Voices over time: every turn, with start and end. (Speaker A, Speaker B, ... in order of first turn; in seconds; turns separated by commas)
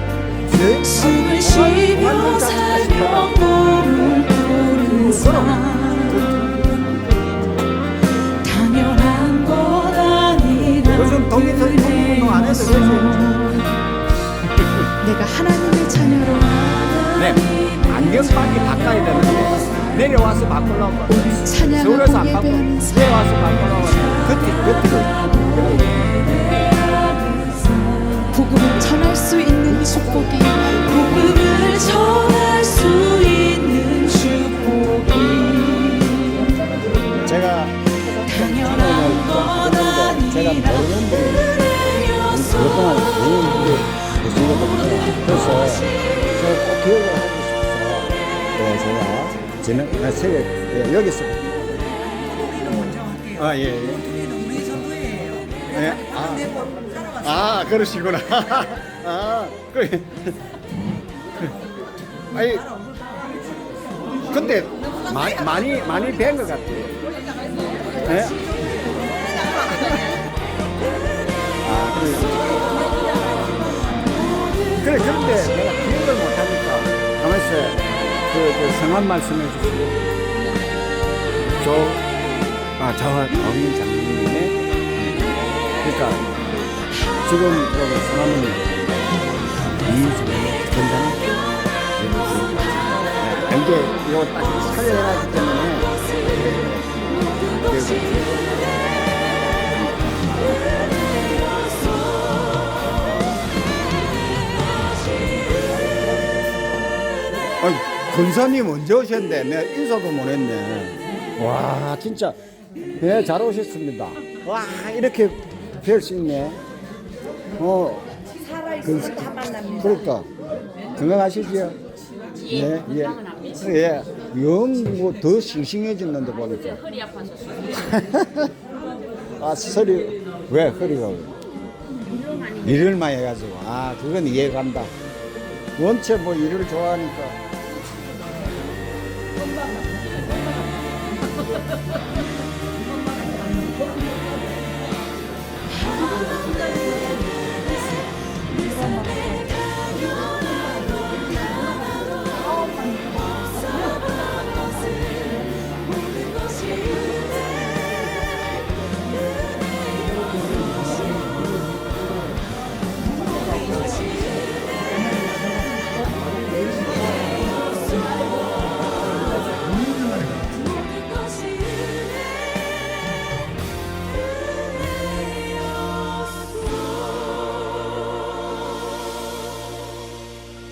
Speaker A: 0.5-3.5, Speaker B: 0.8-6.5, Speaker A: 5.0-6.5, Speaker B: 8.3-13.7, Speaker A: 10.8-13.4, Speaker B: 15.0-20.1, Speaker A: 17.2-26.1, Speaker B: 21.1-36.5, Speaker A: 37.2-41.5, Speaker B: 38.3-43.8, Speaker A: 42.2-51.4, Speaker B: 44.5-46.0, Speaker C: 52.1-53.3, Speaker A: 53.3-54.2, Speaker C: 54.1-55.5, Speaker A: 55.7-56.6, Speaker A: 57.1-60.3, Speaker A: 62.3-62.7, Speaker A: 64.3-67.0, Speaker A: 68.0-68.5, Speaker A: 69.6-69.9, Speaker A: 71.6-72.5, Speaker A: 74.7-80.0, Speaker A: 81.6-82.0, Speaker A: 82.8-85.2, Speaker A: 85.8-86.2, Speaker A: 87.2-89.1, Speaker A: 89.8-91.2, Speaker A: 92.0-96.8, Speaker B: 97.3-99.1, Speaker A: 97.5-98.4, Speaker B: 100.8-102.7, Speaker A: 107.6-112.4, Speaker A: 113.0-116.6, Speaker A: 117.6-118.1, Speaker A: 118.7-120.3, Speaker A: 121.0-121.8, Speaker A: 122.4-126.8, Speaker A: 127.7-128.5, Speaker A: 129.4-131.3, Speaker A: 132.6-134.9, Speaker A: 135.8-137.4, Speaker B: 148.8-149.2, Speaker B: 170.9-172.1